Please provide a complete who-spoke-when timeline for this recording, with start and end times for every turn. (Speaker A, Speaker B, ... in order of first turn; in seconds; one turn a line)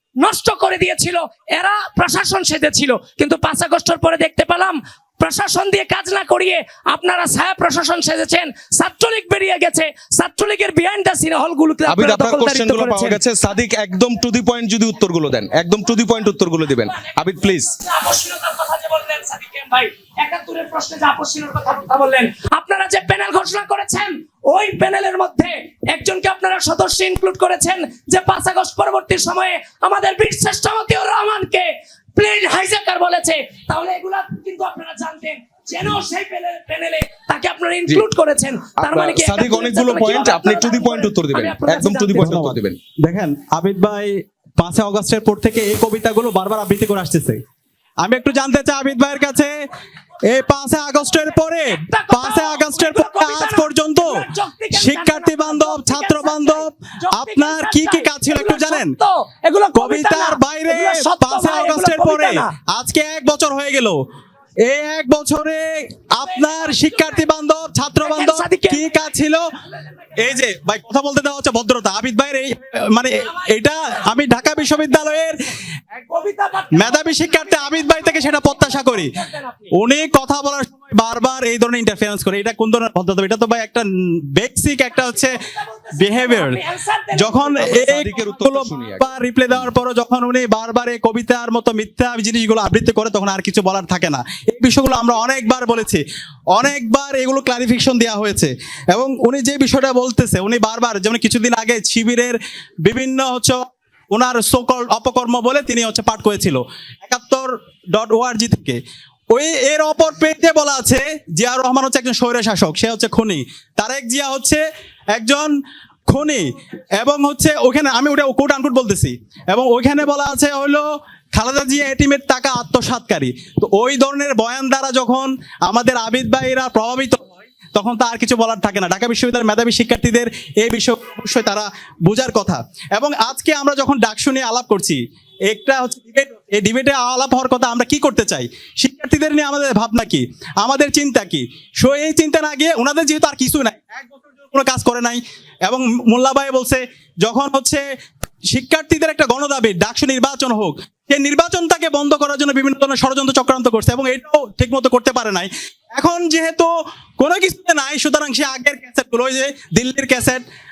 Speaker A: 0.2-13.2
Speaker B: 11.9-17.7
Speaker A: 17.8-42.4
Speaker B: 38.8-42.8
Speaker C: 42.1-47.4
Speaker C: 48.0-49.6
Speaker C: 50.3-58.9
Speaker A: 51.7-62.5
Speaker C: 59.7-64.0
Speaker C: 64.7-69.4
Speaker A: 66.2-67.3
Speaker A: 68.0-69.1
Speaker A: 69.7-70.2
Speaker C: 70.2-75.3
Speaker A: 75.9-79.7
Speaker C: 76.7-79.1
Speaker C: 79.7-85.3
Speaker A: 85.1-88.4
Speaker C: 85.9-86.6
Speaker C: 87.1-96.0
Speaker B: 87.5-89.7
Speaker C: 96.5-108.8
Speaker C: 109.3-114.6
Speaker C: 115.1-115.5
Speaker C: 116.1-147.8
Speaker C: 148.5-156.7
Speaker C: 157.2-160.4